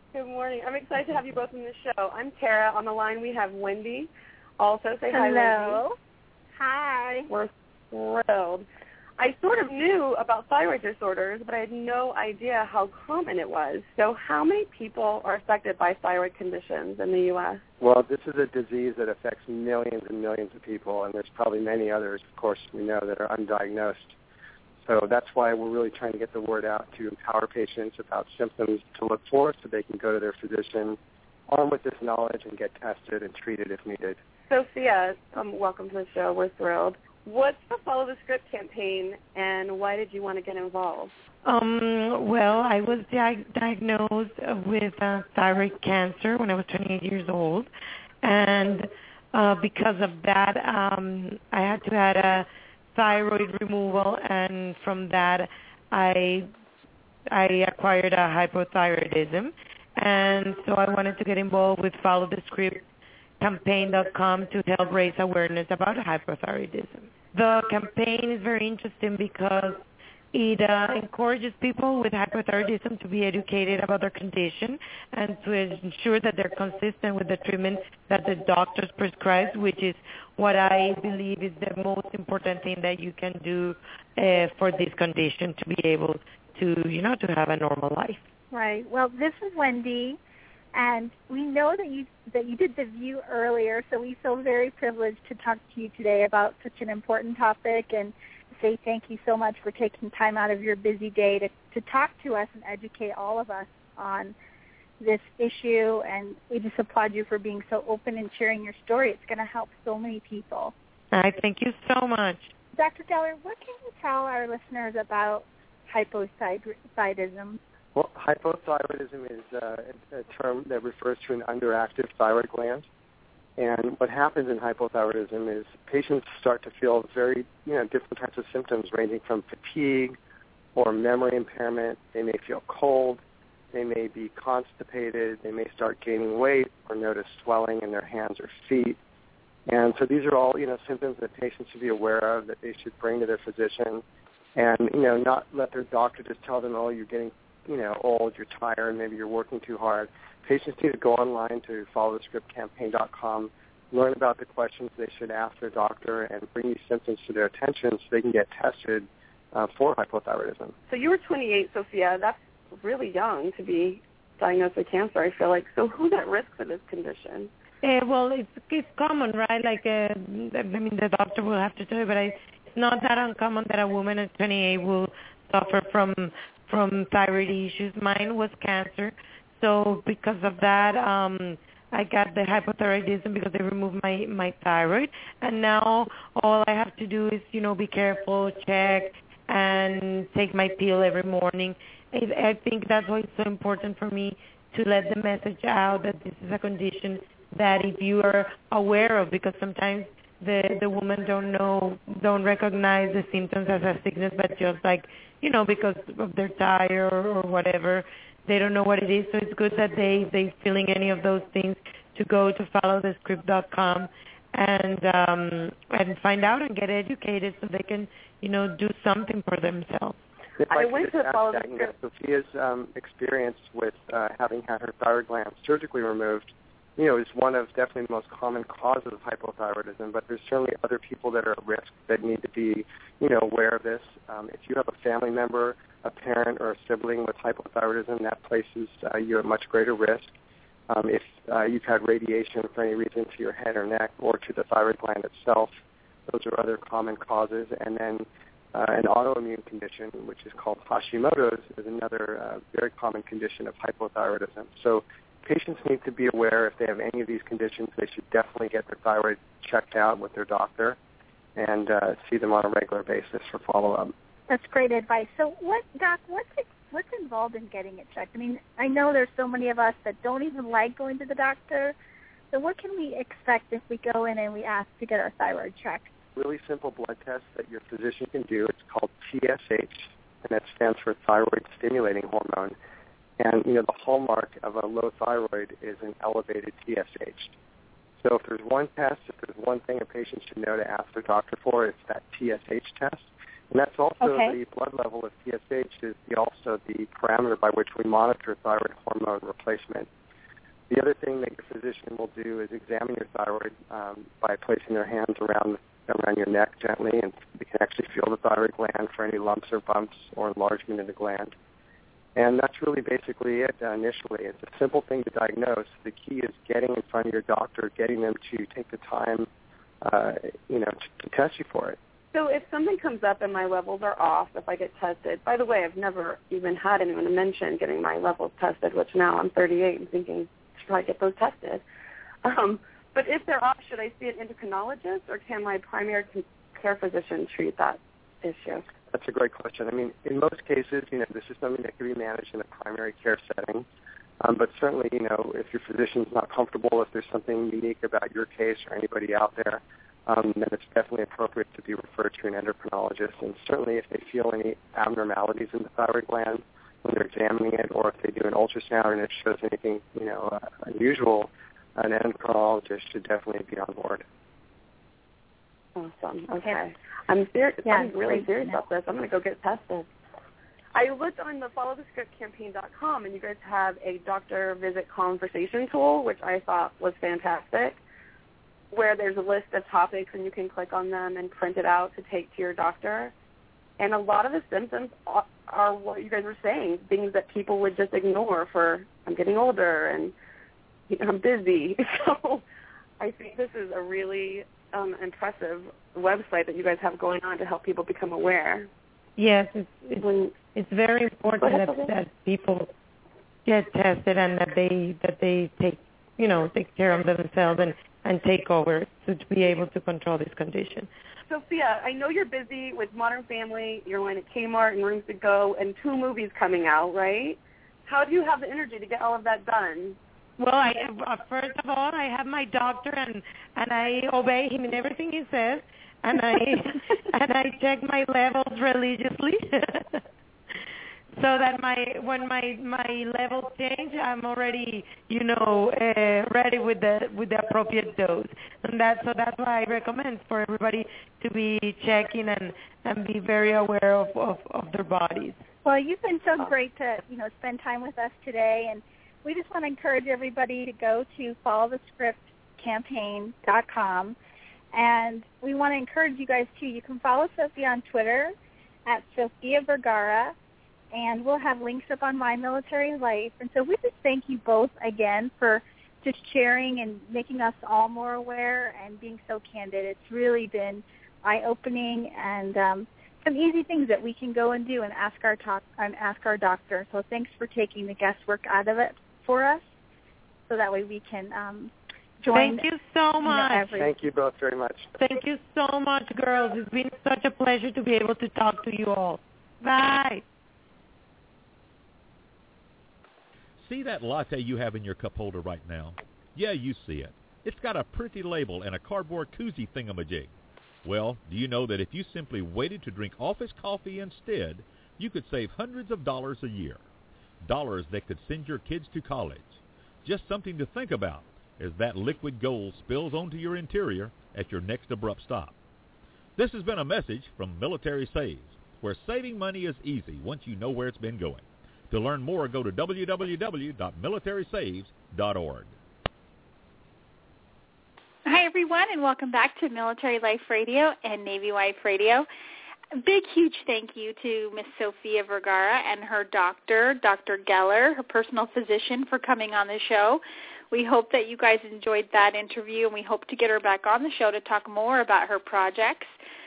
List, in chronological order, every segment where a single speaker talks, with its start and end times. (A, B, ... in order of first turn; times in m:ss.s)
0:00.1-0:05.8 A
0:05.1-0:06.0 B
0:06.6-0:07.3 B
0:07.3-0:08.6 A
0:09.2-0:17.6 A
0:17.8-0:24.2 C
0:24.8-0:31.0 C
0:31.5-0:34.2 C
0:34.5-0:41.1 A
0:41.4-0:47.7 D
0:48.2-0:56.5 D
0:57.3-1:02.8 D
1:03.4-1:09.8 D
1:10.3-1:28.2 D
1:28.5-1:30.2 B
1:30.7-1:44.3 B
1:45.0-1:50.7 B
1:51.1-1:52.5 D
1:52.7-1:57.6 B
1:57.9-2:02.8 C
2:03.6-2:10.2 C
2:10.7-2:13.2 C
2:13.7-2:19.0 C
2:19.7-2:24.0 C
2:24.6-2:40.7 C
2:40.9-2:47.5 A
2:47.8-3:40.2 D
3:40.6-4:00.3 C
3:40.7-3:41.9 A
4:00.9-4:05.8 C
4:06.3-4:21.0 C
4:21.6-4:24.1 C
4:24.5-4:31.9 B
4:32.5-4:36.1 B
4:36.3-4:42.7 C
4:43.4-4:47.5 C
4:48.2-5:00.1 C
4:54.2-4:54.6 B
5:00.9-5:11.5 C
5:12.4-5:19.5 C
5:20.0-5:22.0 C
5:22.3-5:31.8 A
5:32.4-5:38.8 A
5:39.1-5:43.8 C
5:44.4-6:04.2 C
6:06.0-6:10.1 A
6:07.8-6:08.8 B
6:10.9-6:18.0 A
6:18.9-6:23.3 A
6:24.0-6:30.3 A
6:31.1-6:32.6 A
6:33.2-6:38.9 A
6:39.4-6:42.9 D
6:41.6-6:42.1 A
6:43.6-6:51.1 D
6:51.5-7:00.2 A
7:00.6-7:10.2 D
7:11.4-7:25.6 D
7:25.8-7:34.4 B
7:34.9-7:38.5 B
7:39.1-7:40.5 B
7:41.1-7:59.8 B
8:00.7-8:02.9 B
8:02.5-8:03.9 D
8:03.4-8:04.1 B
8:04.0-8:05.1 C
8:05.2-8:10.4 D
8:13.8-8:20.5 E
8:21.0-8:27.0 E
8:27.6-8:35.7 E
8:36.6-8:45.9 E
8:48.4-8:52.5 F
8:53.1-9:06.3 F